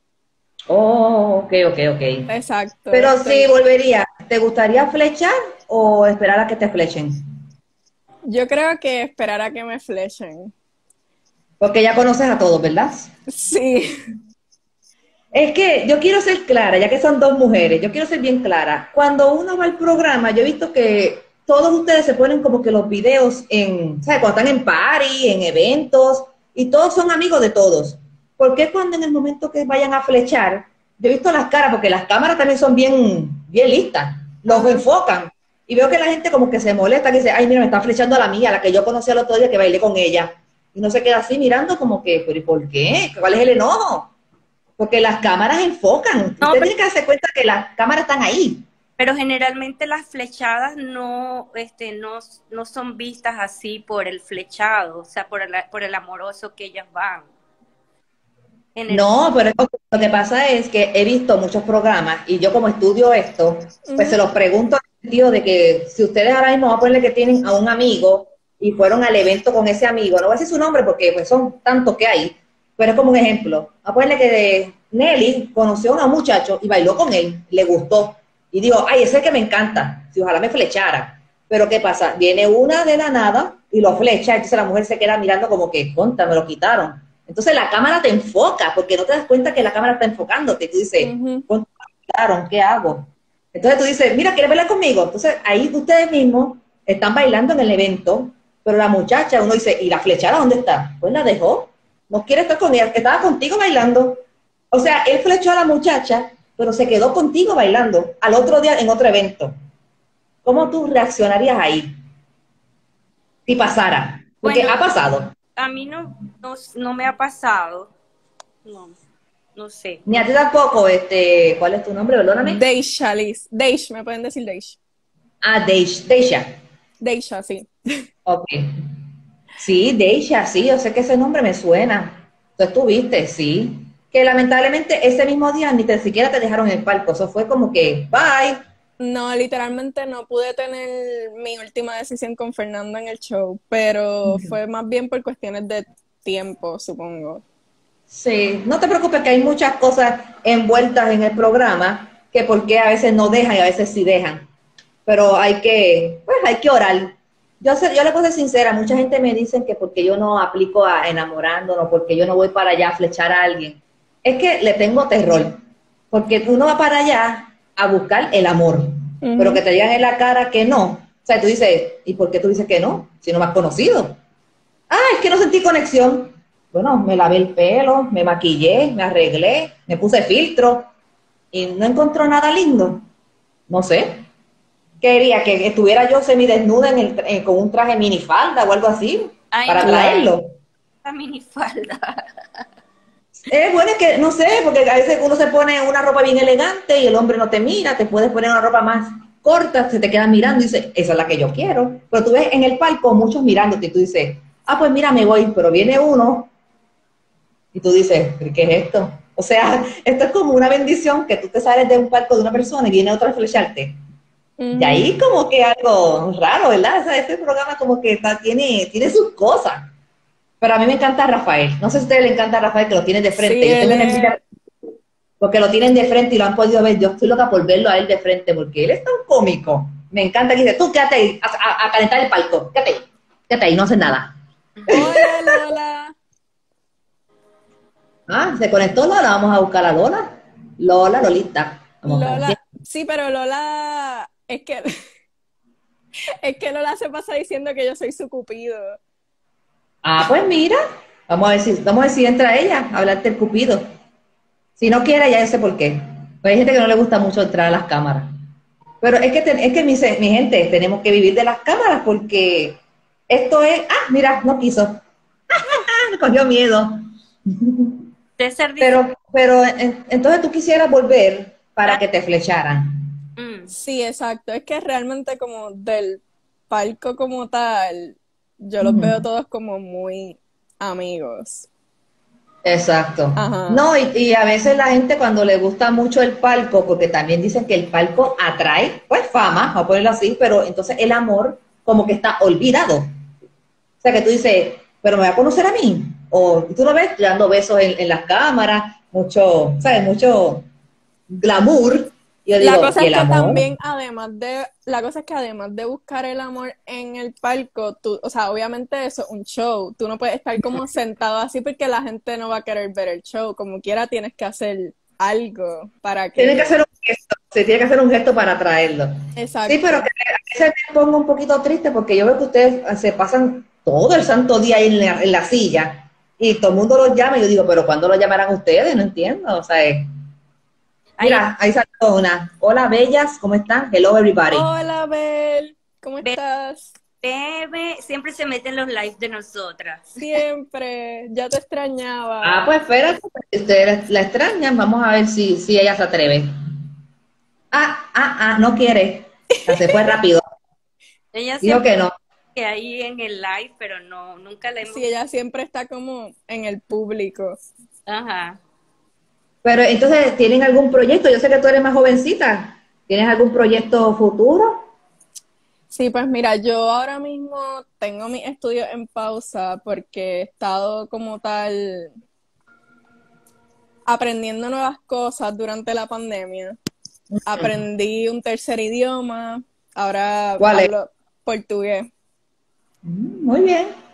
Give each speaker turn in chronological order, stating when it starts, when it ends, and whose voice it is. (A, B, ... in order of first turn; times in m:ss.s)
0:00.7-0:02.3 A
0:02.3-0:03.5 B
0:02.9-0:07.2 A
0:08.3-0:10.5 B
0:11.6-0:13.1 A
0:13.3-0:13.9 B
0:15.3-0:44.1 A
0:34.5-0:34.8 C
0:44.8-0:48.7 A
0:46.4-0:46.7 C
0:49.0-0:57.3 C
0:58.8-0:59.2 C
0:58.9-1:49.6 A
1:03.8-1:04.2 B
1:31.0-1:31.5 B
1:50.4-1:51.9 A
1:53.5-1:55.3 A
1:54.4-1:55.0 C
1:55.6-1:57.9 C
1:58.6-1:59.0 C
1:59.6-2:00.3 C
2:00.1-2:02.6 A
2:02.4-2:04.8 B
2:05.4-2:06.5 A
2:07.0-2:07.7 B
2:08.3-2:08.7 A
2:09.6-2:18.6 A
2:19.0-2:27.4 B
2:28.1-2:34.5 A
2:35.1-2:45.6 A
2:46.1-2:54.2 A
2:49.2-2:49.6 B
2:54.9-3:00.9 A
3:01.5-3:03.1 A
3:03.7-3:04.2 A
3:05.0-3:10.6 A
3:09.5-3:10.4 C
3:11.0-3:12.6 C
3:13.5-3:26.5 A
3:27.7-3:34.0 A
3:34.6-3:35.1 B
3:34.7-3:39.9 A
3:40.6-3:44.4 A
3:43.4-3:44.4 B
3:45.4-3:54.3 A
3:54.9-3:55.6 A
3:54.9-3:56.2 B
3:58.3-4:02.6 A
4:02.1-4:04.9 B
4:06.4-4:09.0 B
4:10.0-4:13.8 A
4:14.8-4:18.3 A
4:19.0-4:25.0 A
4:25.5-4:28.0 A
4:28.4-4:29.0 C
4:28.8-4:33.0 A
4:33.4-4:33.7 C
4:33.7-4:41.7 B
4:38.8-4:39.2 A
4:42.6-4:53.1 A
4:43.4-4:43.8 B
4:54.0-5:00.7 A
5:01.3-5:03.6 A
5:02.6-5:16.7 B
5:16.4-5:19.1 A
5:19.4-5:20.1 B
5:19.7-5:30.1 A
5:31.2-5:31.5 C
5:31.2-5:34.7 A
5:34.5-5:37.0 B
5:37.2-5:40.2 C
5:40.2-5:42.7 B
5:42.4-5:46.5 A
5:47.7-5:50.4 A
5:49.7-5:50.0 B
5:51.3-5:51.9 C
5:51.6-5:52.1 A
5:52.6-5:55.1 C
5:54.9-5:57.6 B
5:58.1-5:58.6 C
5:59.6-6:04.9 A
6:05.9-6:12.1 B
6:14.1-6:16.8 B
6:17.3-6:17.7 A
6:17.5-6:22.1 B
6:20.6-6:20.9 A
6:23.0-6:23.9 A